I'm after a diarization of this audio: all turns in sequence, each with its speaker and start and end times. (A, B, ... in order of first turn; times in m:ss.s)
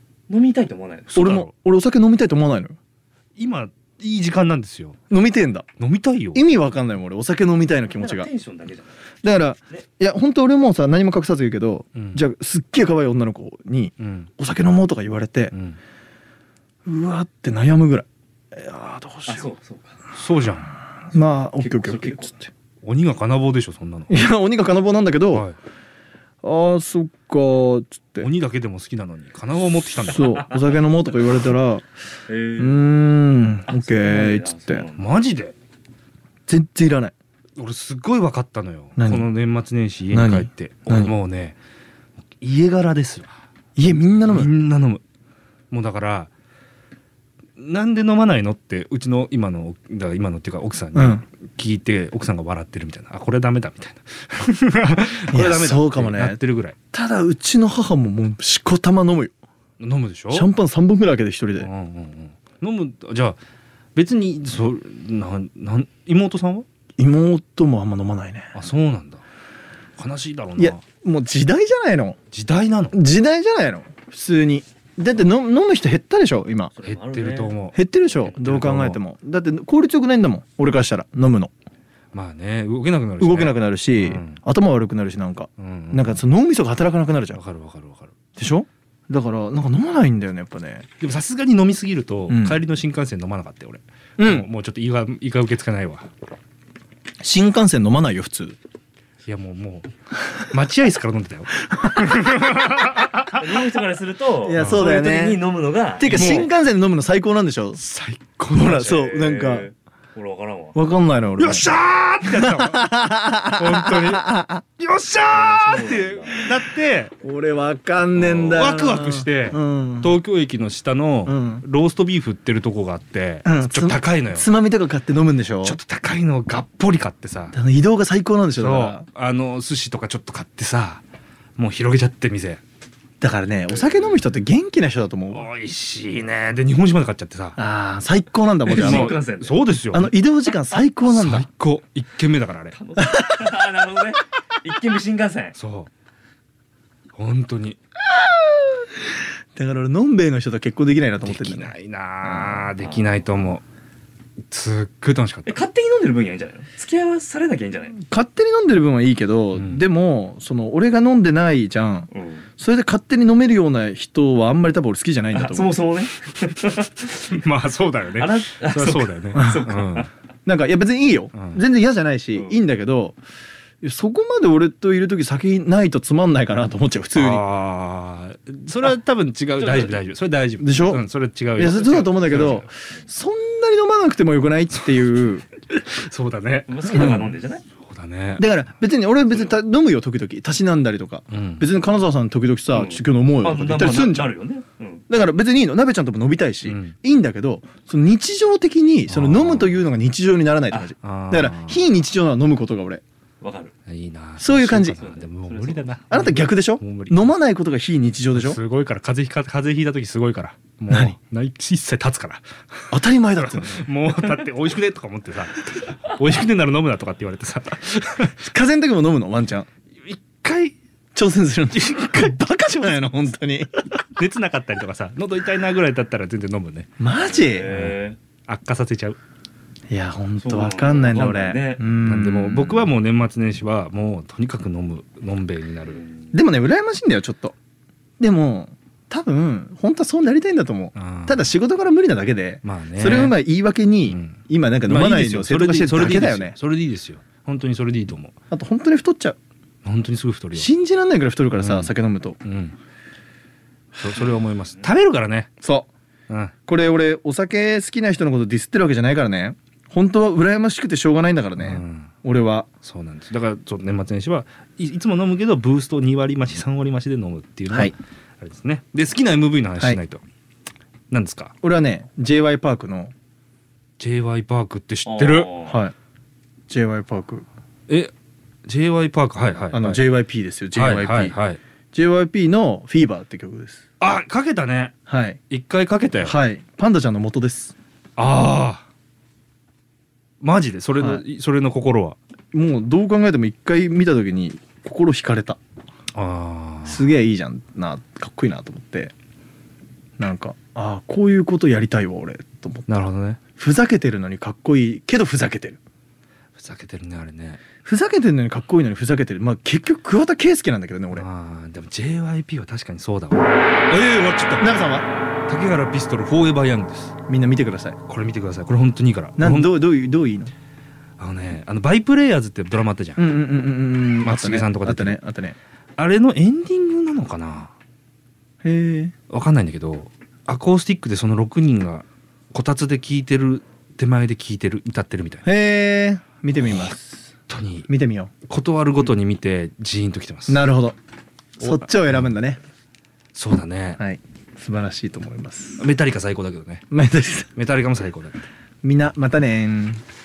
0:00.3-0:01.2 A
0:01.1-0:01.5 B
0:01.1-0:02.8 C
0:03.4-0:05.0 B
0:05.1-0:05.7 C
0:05.8-0:06.4 B
0:06.3-0:08.3 C
0:07.9-0:09.0 A
0:09.2-0:15.5 C
0:11.9-0:12.2 B
0:14.0-0:14.3 B
0:15.5-0:15.8 B
0:16.8-0:19.5 C
0:19.3-0:20.0 A
0:20.1-0:20.7 B
0:21.1-0:22.5 C
0:21.6-0:22.4 A
0:22.8-0:24.2 B
0:24.1-0:25.5 C
0:25.3-0:25.6 B
0:26.4-0:28.3 C
0:28.2-0:30.4 B
0:30.0-0:31.8 C
0:30.4-0:30.8 A
0:32.3-0:32.8 A
0:32.6-0:34.9 C
0:33.7-0:35.1 A
0:35.0-0:35.5 B
0:36.5-0:37.1 C
0:37.6-0:41.6 B
0:39.0-0:39.3 C
0:40.1-0:41.1 C
0:42.4-0:43.4 B
0:43.8-0:44.5 C
0:44.2-0:45.0 B
0:45.7-0:46.3 B
0:47.6-0:56.8 B
0:50.9-0:51.2 C
0:55.3-0:56.4 C
0:56.9-0:59.3 C
0:59.8-1:00.5 B
1:00.3-1:01.7 C
1:01.6-1:03.4 B
1:03.9-1:06.6 B
1:07.0-1:08.6 C
1:08.5-1:09.2 B
1:10.0-1:10.8 B
1:10.6-1:12.2 C
1:12.3-1:13.0 B
1:12.9-1:16.7 C
1:16.7-1:17.6 A
1:16.8-1:19.0 B
1:17.7-1:21.5 C
1:22.1-1:24.4 B
1:23.2-1:27.4 C
1:25.6-1:26.2 B
1:27.3-1:28.1 B
1:28.4-1:30.9 C
1:31.0-1:36.1 B
1:32.3-1:32.6 C
1:34.2-1:34.5 C
1:37.2-1:38.6 C
1:39.2-1:43.4 B
1:41.9-1:42.8 C
1:43.2-1:46.5 A
1:44.4-1:45.4 C
1:44.6-1:44.9 B
1:46.0-1:47.8 C
1:46.1-1:46.5 B
1:47.7-1:48.9 B
1:48.5-1:49.7 C
1:48.7-1:50.8 A
1:50.7-1:54.6 C
1:51.4-1:57.1 B
1:55.3-1:56.4 A
1:57.2-2:00.2 C
1:58.2-2:04.5 B
2:01.2-2:01.6 C
2:03.4-2:05.8 C
2:05.6-2:07.6 B
2:07.5-2:09.1 C
2:08.6-2:11.0 B
2:11.6-2:12.6 B
2:13.2-2:15.5 C
2:15.3-2:17.6 B
2:17.6-2:19.2 C
2:18.7-2:19.6 A
2:18.7-2:20.1 B
2:19.9-2:21.5 C
2:21.1-2:22.8 B
2:22.7-2:25.5 A
2:23.0-2:23.3 C
2:25.5-2:25.9 B
2:27.2-2:27.8 B
2:29.5-2:32.7 C
2:31.2-2:33.6 B
2:32.8-2:33.1 A
2:34.5-2:35.6 B
2:35.5-2:38.0 A
2:38.0-2:45.7 C
2:39.5-2:39.8 B
2:42.1-2:42.5 A
2:45.3-2:47.1 A
2:47.0-2:50.1 B
2:48.1-2:50.1 A
2:50.4-2:53.2 C
2:51.3-2:51.6 B
2:52.3-2:52.6 A
2:53.8-2:57.4 C
2:57.2-3:02.7 B
2:59.6-3:00.0 A
3:00.6-3:05.4 C
3:05.7-3:07.3 B
3:06.7-3:07.6 A
3:06.9-3:07.3 C
3:07.8-3:08.5 B
3:08.4-3:14.4 C
3:11.3-3:11.7 B
3:12.7-3:15.1 A
3:15.1-3:23.0 C
3:16.6-3:17.0 B
3:19.1-3:19.8 B
3:21.0-3:21.9 B
3:23.4-3:23.7 A
3:23.9-3:27.4 B
3:24.4-3:25.0 C
3:24.9-3:25.9 A
3:26.1-3:28.6 C
3:28.3-3:32.5 B
3:30.9-3:31.2 C
3:32.9-3:33.9 C
3:33.5-3:38.4 B
3:38.3-3:39.7 C
3:40.0-3:40.8 B
3:41.1-3:43.9 C
3:44.0-3:46.9 B
3:47.0-3:47.8 C
3:47.2-3:48.2 A
3:47.6-3:49.2 B
3:49.9-3:52.9 C
3:50.4-3:51.8 A
3:52.0-3:56.0 B
3:55.9-3:56.3 A
3:56.3-3:57.5 C
3:58.2-4:06.6 C
4:00.9-4:01.5 B
4:02.6-4:03.4 B
4:04.1-4:08.4 B
4:08.5-4:09.4 C
4:09.8-4:10.7 B
4:10.5-4:12.4 C
4:11.6-4:12.8 B
4:14.0-4:15.5 B
4:15.6-4:15.9 C
4:16.3-4:16.5 B
4:16.6-4:22.7 C
4:21.6-4:22.1 B
4:22.8-4:30.2 B
4:31.1-4:31.5 B
4:31.6-4:33.1 C
4:34.0-4:35.5 B
4:35.1-4:35.8 A
4:35.7-4:35.9 C
4:36.7-4:37.4 C
4:37.9-4:38.1 B
4:38.6-4:40.0 B
4:39.7-4:41.4 C
4:40.7-4:41.6 B
4:41.9-4:43.8 C
4:44.0-4:44.9 B
4:45.1-4:45.4 C
4:45.5-4:46.4 B
4:46.2-4:47.7 C
4:48.2-4:48.8 B
4:50.4-4:52.2 B
4:51.0-4:51.2 C
4:52.5-4:55.6 C
4:56.1-4:57.1 B
4:56.8-4:59.1 C
5:00.2-5:02.9 C
5:02.9-5:03.4 B
5:03.6-5:05.8 C
5:06.6-5:07.6 B
5:07.8-5:11.2 C
5:11.1-5:14.7 B
5:14.6-5:15.1 C
5:15.5-5:17.2 B
5:17.3-5:18.0 C
5:18.1-5:19.8 B
5:19.4-5:20.5 C
5:21.2-5:23.3 B
5:23.2-5:25.6 C
5:24.2-5:25.2 B
5:26.0-5:27.7 B
5:28.6-5:29.1 C
5:29.3-5:35.4 B
5:35.4-5:37.3 C
5:36.6-5:36.9 B
5:37.5-5:37.9 B
5:37.9-5:38.3 C
5:38.4-5:40.7 B
5:40.5-5:41.0 C
5:41.6-5:42.6 C
5:41.6-5:42.3 B
5:43.3-5:44.0 B
5:44.0-5:45.8 C
5:45.8-5:46.8 B
5:46.9-5:47.5 C
5:47.5-5:48.4 B
5:48.8-5:50.0 C